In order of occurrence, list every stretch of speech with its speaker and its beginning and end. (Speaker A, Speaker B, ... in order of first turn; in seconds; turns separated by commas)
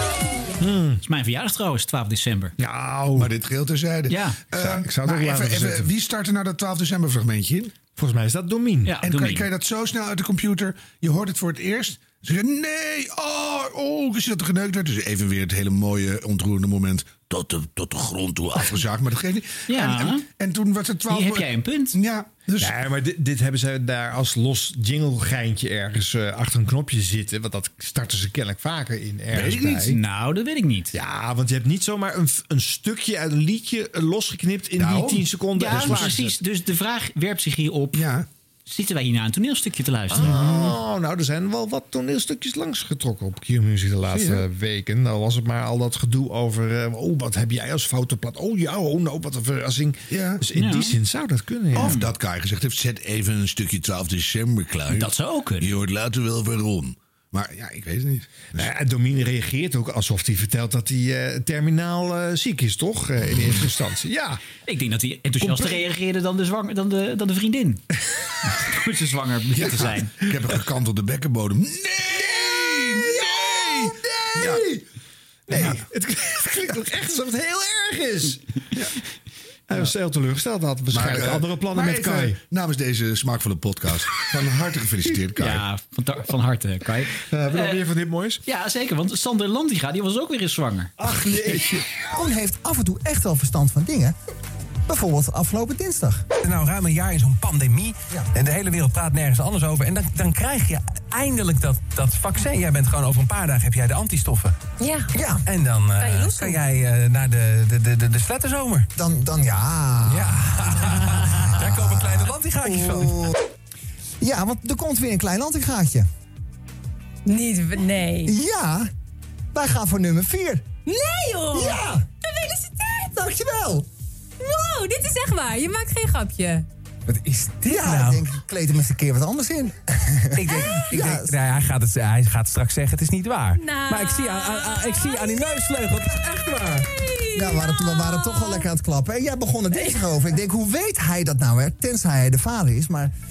Speaker A: 0.6-1.0, Speaker B: 1.0-2.5, Speaker A: 2.6-3.3, Speaker C: 3.1-7.7, Speaker B: 4.1-4.4, Speaker A: 4.5-5.9, Speaker A: 8.0-8.9, Speaker B: 8.8-9.5, Speaker C: 9.0-22.7, Speaker B: 19.7-20.2, Speaker B: 21.1-21.9, Speaker A: 22.6-30.0, Speaker C: 29.3-29.9, Speaker B: 29.5-30.9, Speaker A: 30.9-36.3, Speaker C: 34.8-36.2, Speaker B: 35.5-38.1, Speaker C: 37.9-38.3, Speaker B: 38.6-40.7, Speaker A: 40.1-52.0, Speaker C: 40.2-40.5, Speaker C: 50.1-50.4, Speaker B: 50.5-51.0, Speaker C: 51.7-58.7, Speaker B: 51.7-52.1, Speaker B: 54.9-55.7, Speaker A: 58.5-64.4, Speaker B: 64.6-67.8, Speaker A: 65.4-65.8, Speaker B: 68.5-70.1, Speaker C: 69.5-74.6, Speaker A: 72.1-74.8, Speaker A: 75.5-78.4, Speaker C: 75.5-75.8, Speaker A: 79.7-82.4, Speaker C: 80.9-85.6, Speaker B: 85.4-87.8, Speaker A: 87.2-88.4, Speaker B: 88.5-90.9, Speaker A: 91.0-92.0, Speaker D: 92.1-94.1, Speaker D: 94.9-96.2, Speaker E: 96.4-104.5, Speaker F: 104.8-105.1, Speaker D: 105.1-105.4, Speaker E: 105.5-108.9, Speaker F: 106.0-106.6, Speaker D: 109.0-110.8, Speaker E: 110.1-113.2, Speaker D: 111.5-113.3, Speaker D: 114.2-116.1, Speaker F: 117.2-118.3, Speaker D: 118.2-118.9, Speaker D: 119.5-120.7, Speaker F: 120.8-123.1, Speaker D: 121.5-122.0, Speaker D: 123.1-123.8, Speaker F: 124.4-126.7, Speaker E: 127.1-128.2, Speaker D: 127.6-131.3, Speaker E: 130.3-136.8, Speaker F: 133.5-135.6, Speaker F: 136.8-138.7, Speaker D: 137.3-143.1, Speaker F: 139.7-140.0